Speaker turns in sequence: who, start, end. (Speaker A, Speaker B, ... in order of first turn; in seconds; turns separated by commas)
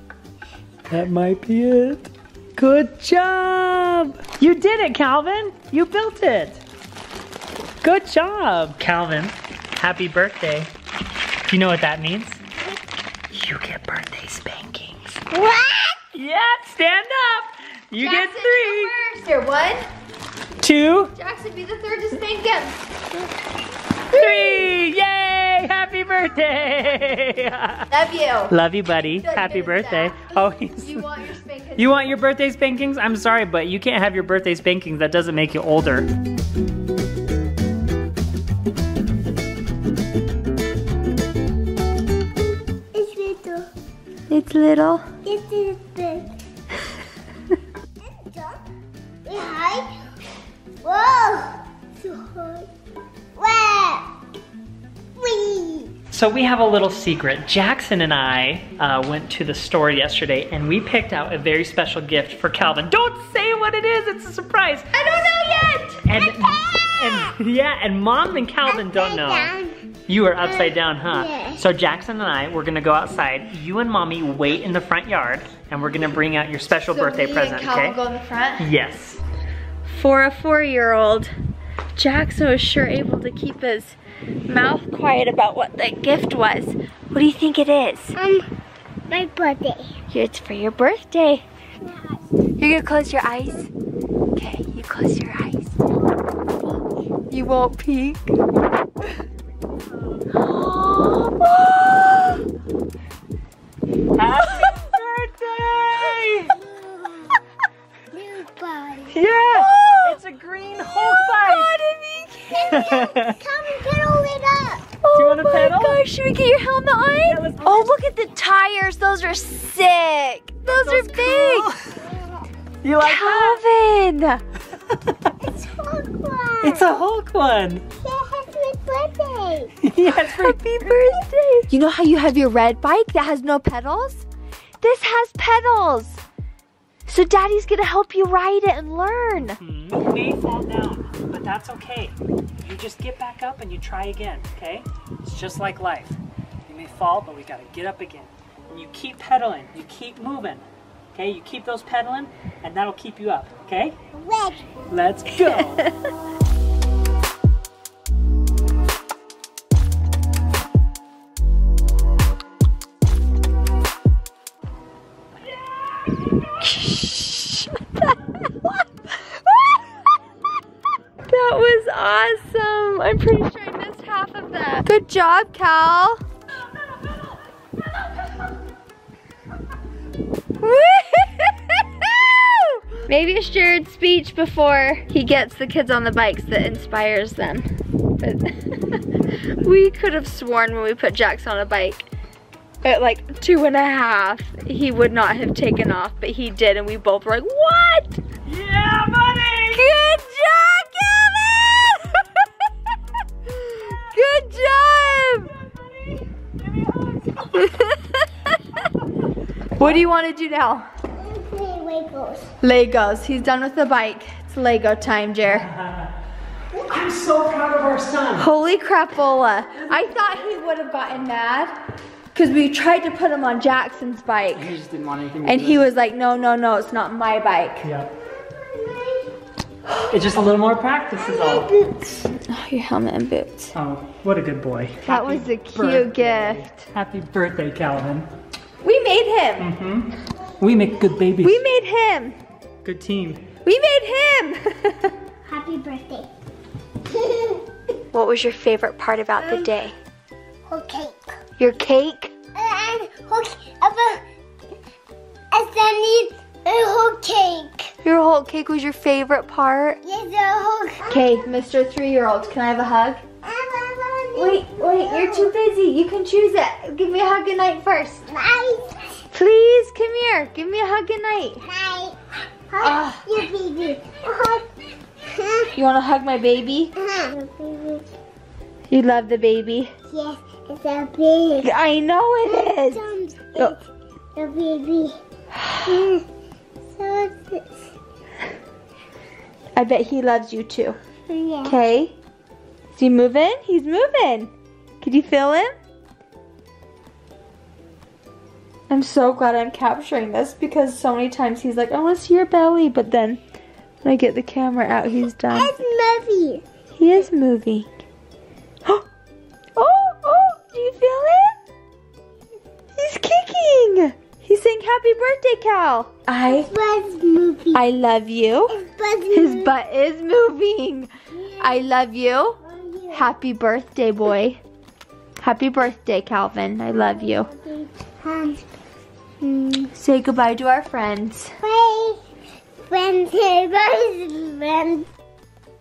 Speaker A: 0.9-6.6, Speaker A: 7.8-10.7, Speaker A: 11.5-12.4, Speaker A: 13.3-15.2, Speaker B: 15.3-16.0, Speaker A: 16.1-18.9, Speaker C: 18.0-19.8, Speaker A: 20.6-21.1, Speaker C: 21.1-22.9, Speaker A: 24.1-27.9, Speaker C: 24.1-24.6, Speaker C: 27.9-28.6, Speaker A: 28.5-31.1, Speaker C: 29.2-32.2, Speaker A: 31.8-36.1, Speaker B: 42.9-43.7, Speaker C: 44.3-45.1, Speaker B: 45.2-46.3, Speaker B: 48.0-48.6, Speaker B: 49.2-49.9, Speaker B: 50.8-52.7, Speaker B: 53.4-54.1, Speaker B: 55.2-55.9, Speaker A: 56.1-64.9, Speaker C: 64.9-66.1, Speaker A: 66.0-69.5, Speaker B: 68.6-69.8, Speaker A: 70.1-78.0, Speaker B: 70.4-71.6, Speaker C: 76.9-78.7, Speaker A: 78.6-79.2, Speaker C: 79.8-81.3, Speaker C: 82.0-88.2, Speaker B: 88.2-88.5, Speaker B: 89.1-90.0, Speaker C: 90.1-91.4, Speaker B: 91.8-92.1, Speaker C: 92.6-93.7, Speaker C: 94.3-95.8, Speaker C: 97.3-98.3, Speaker A: 100.3-102.0, Speaker A: 104.1-106.6, Speaker B: 106.6-107.4, Speaker B: 108.1-109.2, Speaker A: 109.1-111.7, Speaker C: 109.3-110.2, Speaker C: 110.8-112.7, Speaker B: 112.5-114.8, Speaker A: 112.7-113.4, Speaker C: 115.0-121.7, Speaker A: 115.1-116.0, Speaker A: 117.2-117.9, Speaker A: 120.6-122.0, Speaker B: 122.0-122.5, Speaker A: 122.8-123.6, Speaker C: 123.0-124.4, Speaker B: 125.4-126.9, Speaker A: 126.6-127.8, Speaker B: 128.0-129.7, Speaker A: 129.8-131.1, Speaker C: 130.2-134.2, Speaker C: 134.8-136.2, Speaker C: 137.1-139.6, Speaker A: 139.6-153.9, Speaker B: 154.1-154.7, Speaker A: 154.9-155.9, Speaker C: 166.6-168.7, Speaker C: 169.3-169.7, Speaker C: 171.2-176.2, Speaker C: 180.6-187.7, Speaker C: 188.2-189.0, Speaker C: 189.5-192.1, Speaker C: 192.8-198.2, Speaker A: 198.4-199.9, Speaker C: 199.7-202.4, Speaker C: 203.6-205.5, Speaker A: 203.8-204.4, Speaker A: 206.1-207.5, Speaker C: 207.5-208.2, Speaker C: 209.8-210.8, Speaker B: 211.2-212.5, Speaker C: 212.6-215.7, Speaker A: 215.5-216.1, Speaker A: 216.8-218.5, Speaker C: 218.4-221.7, Speaker C: 222.3-224.7, Speaker A: 224.5-225.8, Speaker C: 225.4-227.9, Speaker A: 227.8-228.1, Speaker B: 228.2-229.3, Speaker A: 230.1-231.7, Speaker B: 231.2-232.2, Speaker C: 232.3-233.7, Speaker A: 233.7-238.3, Speaker C: 235.0-236.8, Speaker C: 238.8-239.7, Speaker A: 239.6-241.6, Speaker C: 241.4-242.4, Speaker A: 242.8-243.4, Speaker C: 243.6-245.1, Speaker B: 245.5-246.3, Speaker B: 247.1-247.6, Speaker C: 248.1-249.9, Speaker B: 250.7-251.3, Speaker C: 251.6-252.3, Speaker B: 252.5-254.2, Speaker B: 255.5-257.9, Speaker C: 258.0-260.0, Speaker B: 260.0-261.3, Speaker C: 261.1-263.2, Speaker B: 263.4-265.5, Speaker C: 264.3-268.3, Speaker B: 268.3-269.2, Speaker C: 269.3-271.6, Speaker B: 271.6-272.2, Speaker B: 272.7-274.7, Speaker C: 272.8-273.3, Speaker B: 275.2-275.7, Speaker C: 275.7-276.9, Speaker B: 277.0-278.1, Speaker C: 278.9-279.9, Speaker B: 280.1-281.7, Speaker C: 281.6-283.0, Speaker B: 282.4-283.8, Speaker B: 284.3-285.2, Speaker C: 285.6-285.9, Speaker B: 285.9-286.2, Speaker B: 286.9-287.8, Speaker C: 289.8-291.0, Speaker B: 291.3-291.8, Speaker C: 291.6-292.1, Speaker C: 292.9-295.7, Speaker C: 298.9-303.4, Speaker C: 304.0-305.8, Speaker B: 305.5-306.6, Speaker C: 307.0-307.9, Speaker C: 309.8-311.6, Speaker C: 312.9-316.7, Speaker B: 316.4-317.8, Speaker C: 317.7-318.8, Speaker B: 318.7-319.7, Speaker C: 319.3-322.6, Speaker B: 321.3-321.9, Speaker B: 322.6-323.4, Speaker C: 323.1-324.6, Speaker C: 325.4-327.5, Speaker B: 326.9-328.6, Speaker C: 329.4-331.6, Speaker B: 331.6-332.2, Speaker B: 332.9-335.1